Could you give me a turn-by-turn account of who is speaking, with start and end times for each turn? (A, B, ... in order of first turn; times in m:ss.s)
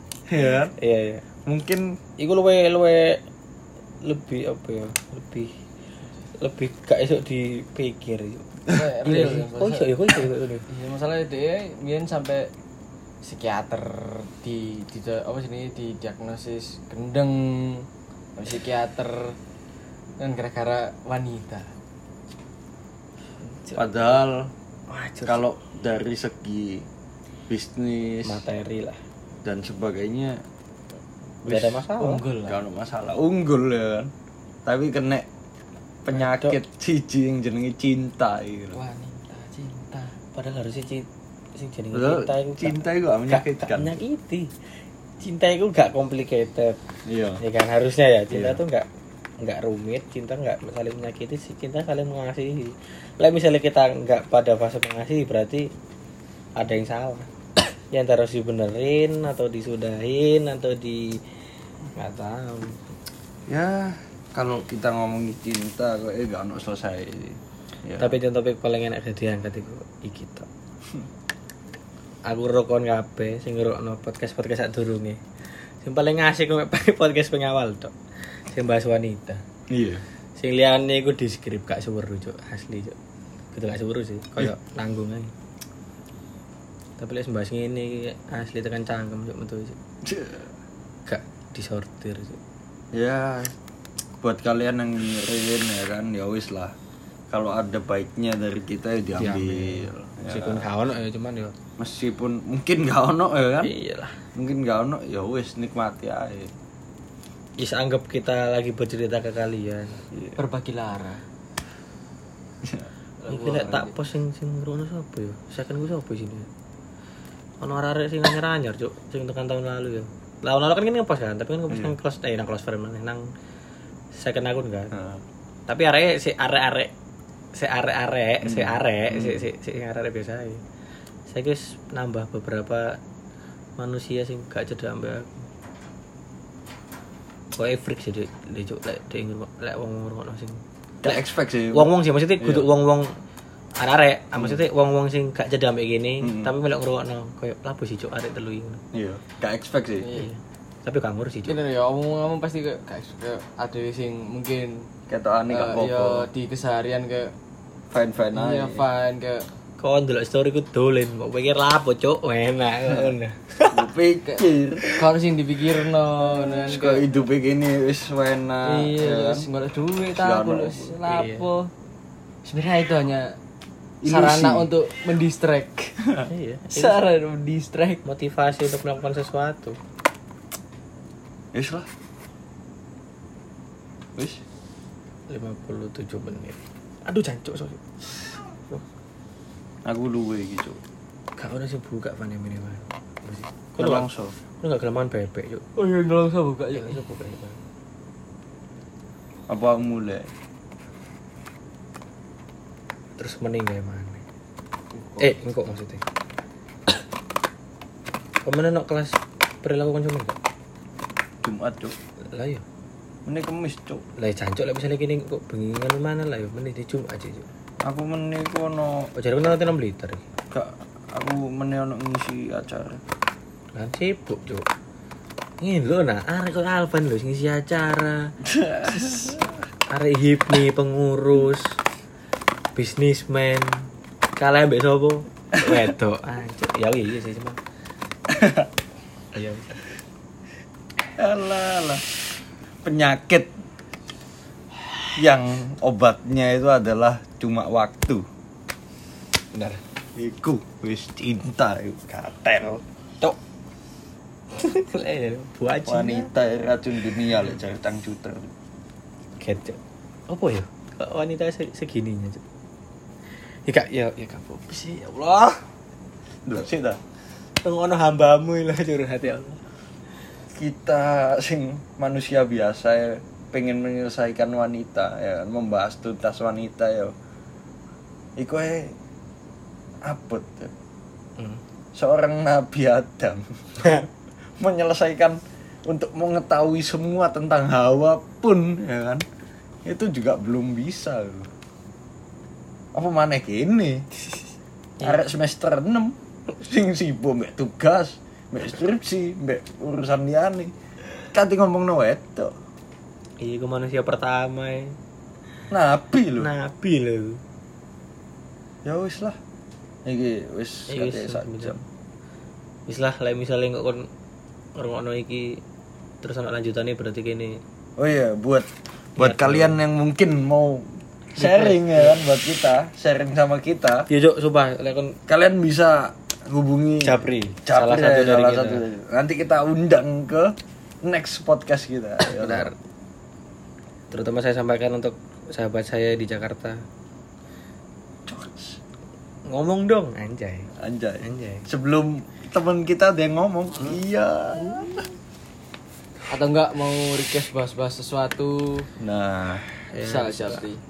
0:00.3-0:00.7 A
0:00.8-0:01.2 B
0:01.4-0:02.0 A
0:02.2-0:03.2 B
0:04.0-0:05.5 B
0:06.4-0:10.6 B
0:08.7-0:09.3 A
0:08.7-0:12.5 C
0:13.2-0:19.4 C
0:20.2-0:21.7 C
0:23.5-0:24.1 B
0:23.7-0:24.5 A
0:24.9-0:25.4 B
0:25.2-0:26.9 A
0:27.5-0:28.4 A
0:28.2-0:29.0 B
0:29.4-0:30.4 A
0:31.4-0:32.2 B
0:31.5-0:32.6 C
0:32.4-0:34.1 A
0:34.6-0:35.3 A
0:36.0-0:38.8 A
0:36.1-0:36.6 B
0:38.7-0:40.2 C
0:40.3-0:44.5 B
0:41.9-0:44.0 A
0:45.2-0:46.8 B
0:47.1-0:47.4 A
0:47.4-0:48.8 B
0:48.3-0:48.6 A
0:49.4-0:55.7 B
0:56.6-0:57.3 B
0:57.9-1:01.2 B
1:02.0-1:02.8 B
1:03.5-1:08.1 A
1:08.0-1:10.5 B
1:12.3-1:15.2 B
1:15.8-1:17.9 B
1:18.5-1:19.4 B
1:19.7-1:20.0 A
1:20.4-1:23.0 B
1:23.5-1:25.3 B
1:27.0-1:29.8 B
1:30.0-1:30.5 A
1:31.1-1:32.4 B
1:32.9-1:33.5 A
1:34.2-1:36.7 A
1:37.3-1:40.7 A
1:39.2-1:41.5 B
1:41.8-1:43.7 A
1:43.6-1:44.2 B
1:44.3-1:46.5 A
1:47.6-1:50.0 B
1:50.4-1:51.2 C
1:53.2-1:53.9 C
1:53.3-1:56.5 B
1:57.6-2:03.3 B
2:01.7-2:02.0 A
2:04.1-2:04.9 B
2:04.9-2:05.2 A
2:05.7-2:06.9 B
2:07.5-2:10.6 B
2:08.4-2:09.5 A
2:11.3-2:13.0 B
2:13.8-2:15.4 B
2:17.5-2:23.1 B
2:21.0-2:22.6 A
2:23.8-2:28.8 B
2:24.3-2:24.6 A
2:26.2-2:26.5 A
2:28.9-2:30.1 A
2:30.0-2:30.3 C
2:30.1-2:31.6 B
2:31.4-2:34.9 C
2:35.1-2:36.3 A
2:35.5-2:37.3 C
2:37.9-2:38.8 A
2:38.3-2:39.5 C
2:39.8-2:43.8 B
2:43.7-2:44.9 A
2:44.3-2:47.1 C
2:46.7-2:49.5 A
2:48.6-2:51.7 C
2:50.2-2:51.0 A
2:51.0-2:51.5 B
2:52.4-2:53.3 C
2:54.0-2:54.7 A
2:54.0-2:56.0 C
2:56.2-2:57.0 B
2:56.7-2:58.0 C
2:58.0-2:59.8 B
3:01.5-3:01.9 A
3:04.2-3:04.4 A
3:05.3-3:07.9 B
3:09.8-3:10.8 A
3:11.4-3:14.0 B
3:13.8-3:14.3 A
3:14.6-3:15.6 B
3:15.8-3:17.0 C
3:16.7-3:17.6 B
3:19.5-3:20.3 A
3:23.2-3:24.2 B
3:25.2-3:26.0 B
3:28.4-3:30.4 B
3:31.4-3:32.0 A
3:32.2-3:32.6 B
3:33.2-3:34.0 A
3:34.2-3:37.5 B
3:37.8-3:39.1 A
3:39.1-3:40.2 B
3:40.5-3:43.0 A
3:43.7-3:44.6 B
3:45.6-3:48.3 B
3:48.5-3:49.4 A
3:49.9-3:51.8 B
3:52.7-3:57.6 B
3:58.3-3:58.7 A
3:59.3-3:59.8 B
4:01.2-4:02.0 A
4:02.8-4:03.6 A
4:05.2-4:08.2 A
4:09.5-4:09.8 B
4:10.2-4:12.2 A
4:12.1-4:13.4 B
4:14.5-4:16.3 B
4:15.8-4:18.5 A
4:19.4-4:22.4 B
4:23.7-4:25.4 B
4:26.4-4:27.0 A
4:27.6-4:29.6 B
4:30.5-4:37.1 A
4:38.4-4:39.0 A
4:40.0-4:40.7 A
4:41.9-4:49.2 A
4:49.8-4:51.5 A
4:52.9-4:54.0 A
4:55.0-5:00.7 A
5:01.3-5:02.5 A
5:03.4-5:05.0 B
5:05.7-5:06.5 A
5:06.4-5:07.4 B
5:08.8-5:09.4 A
5:10.0-5:11.8 A
5:10.9-5:11.8 B
5:12.9-5:14.1 B
5:14.8-5:15.6 B
5:16.2-5:17.6 B
5:18.0-5:24.1 A
5:19.2-5:19.8 B
5:21.4-5:22.2 B
5:24.1-5:25.2 B
5:25.3-5:32.7 A
5:27.0-5:28.8 B
5:32.2-5:32.8 B
5:34.1-5:36.8 B
5:38.2-5:38.8 A
5:39.4-5:41.7 B
5:40.8-5:45.0 A
5:44.6-5:45.0 B
5:46.3-5:48.9 C
5:49.0-5:49.6 A
5:49.9-5:50.6 B
5:50.0-5:50.8 C